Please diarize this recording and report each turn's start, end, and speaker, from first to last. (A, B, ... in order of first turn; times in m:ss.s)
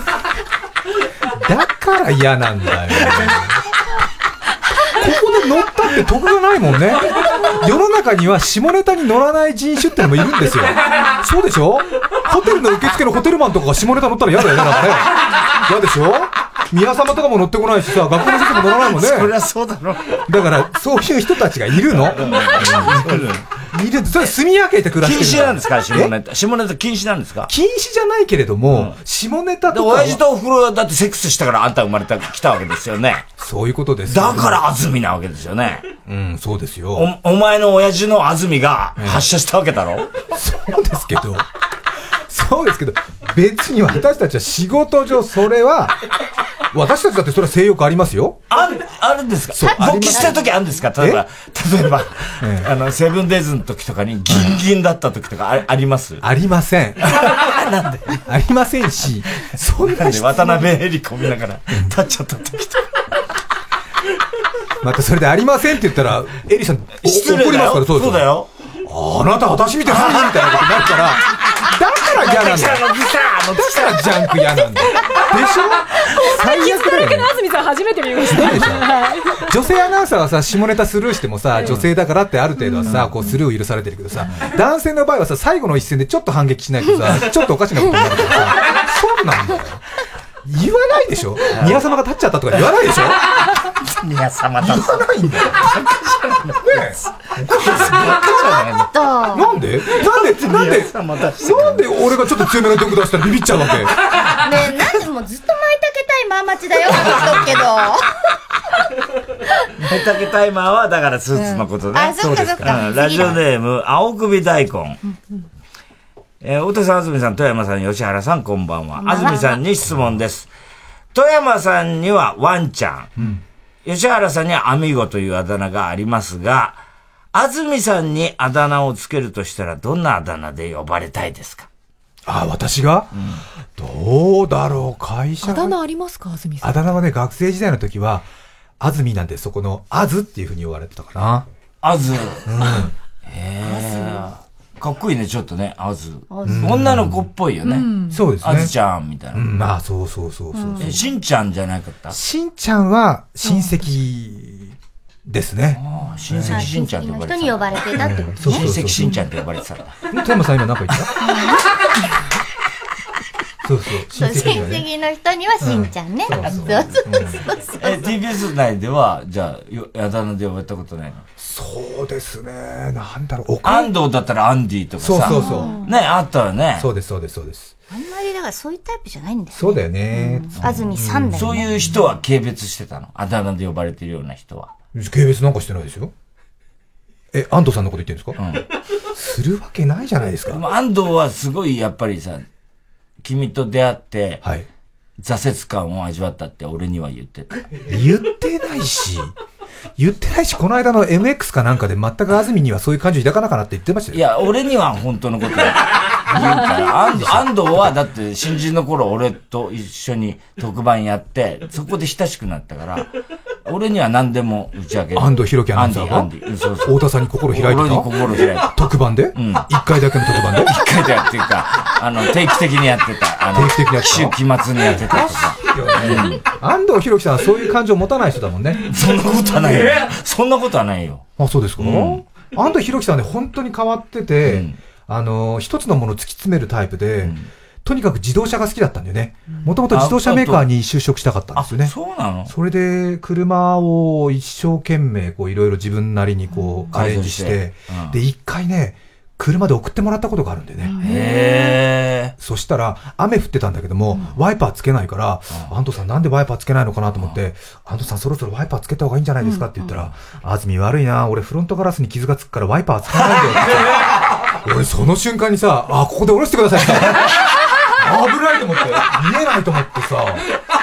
0:01.3-0:03.6 A
0:04.9-0:19.3 A
0:18.7-0:20.3 B
0:20.3-0:26.1 A
0:21.9-0:23.5 B
0:25.0-0:27.5 B
0:27.5-0:30.2 A
0:28.7-0:29.0 B
0:29.7-0:33.3 B
0:33.4-0:34.6 A
0:34.1-0:35.9 B
0:36.1-0:37.1 A
0:37.0-0:40.2 B
0:39.0-0:39.3 A
0:40.4-0:41.5 A
0:42.3-0:46.0 A
0:46.7-0:48.4 A
0:48.5-0:56.2 B
0:49.5-0:50.4 A
0:49.8-0:50.7 C
0:52.4-0:52.7 A
0:54.3-0:54.6 A
0:56.2-0:57.3 A
0:57.2-0:58.0 B
0:58.1-1:00.8 A
0:59.8-1:02.9 B
1:04.8-1:08.3 A
1:07.0-1:08.5 B
1:08.8-1:12.9 A
1:09.9-1:10.6 B
1:12.1-1:14.2 B
1:13.5-1:17.4 A
1:16.1-1:19.2 D
1:18.2-1:29.8 A
1:22.8-1:23.2 B
1:30.4-1:33.3 A
1:31.5-1:31.8 B
1:33.8-1:36.8 B
1:34.6-1:35.7 A
1:36.6-1:38.2 A
1:37.4-1:38.9 B
1:38.6-1:39.5 C
1:39.3-1:44.0 A
1:40.0-1:42.0 B
1:44.4-1:48.1 C
1:49.8-1:55.0 B
1:51.3-1:53.4 C
1:52.2-1:52.8 A
1:56.4-2:00.5 B
1:59.0-1:59.6 C
2:01.1-2:03.1 B
2:03.2-2:03.4 A
2:03.8-2:06.8 B
2:07.3-2:11.7 B
2:12.3-2:13.1 A
2:13.1-2:13.4 B
2:13.8-2:15.8 A
2:15.5-2:16.7 D
2:16.6-2:18.3 A
2:18.8-2:21.5 A
2:21.8-2:29.5 B
2:22.5-2:22.9 A
2:23.8-2:24.2 C
2:26.3-2:26.8 C
2:26.4-2:27.3 A
2:27.7-2:28.2 D
2:28.1-2:28.7 A
2:29.3-2:31.0 A
2:30.5-2:31.0 C
2:30.8-2:32.2 B
2:32.1-2:36.7 A
2:35.8-2:40.0 B
2:36.5-2:39.0 C
2:38.0-2:39.1 A
2:40.1-2:41.2 A
2:41.2-2:41.6 C
2:43.6-2:44.9 A
2:44.1-2:48.1 C
2:45.6-2:47.4 A
2:46.4-2:47.0 B
2:47.8-2:51.2 B
2:51.4-2:53.9 A
2:53.6-2:56.9 B
2:55.0-2:55.7 A
2:55.3-2:55.9 C
2:56.8-2:57.7 A
2:57.9-3:01.8 C
2:59.5-3:01.4 A
3:00.6-3:04.7 B
3:04.9-3:06.1 A
3:07.3-3:08.4 A
3:08.4-3:08.7 B
3:09.2-3:10.6 A
3:10.5-3:12.5 B
3:13.2-3:14.4 B
3:15.2-3:17.6 B
3:17.9-3:19.3 A
3:20.0-3:24.2 A
3:24.1-3:33.1 B
3:26.3-3:27.9 A
3:33.7-3:38.7 B
3:35.2-3:36.3 A
3:36.8-3:40.8 A
3:39.4-3:39.7 B
3:40.5-3:46.4 B
3:43.5-3:44.4 A
3:44.9-3:48.9 A
3:48.8-3:51.2 B
3:51.4-4:01.9 A
3:51.8-3:52.2 B
3:54.4-3:54.8 B
3:57.2-3:57.5 B
3:59.9-4:00.7 B
4:01.6-4:02.5 B
4:02.4-4:11.0 A
4:06.9-4:08.2 B
4:10.9-4:11.4 D
4:11.0-4:12.4 B
4:12.4-4:24.1 A
4:24.6-4:27.3 A
4:28.0-4:30.4 A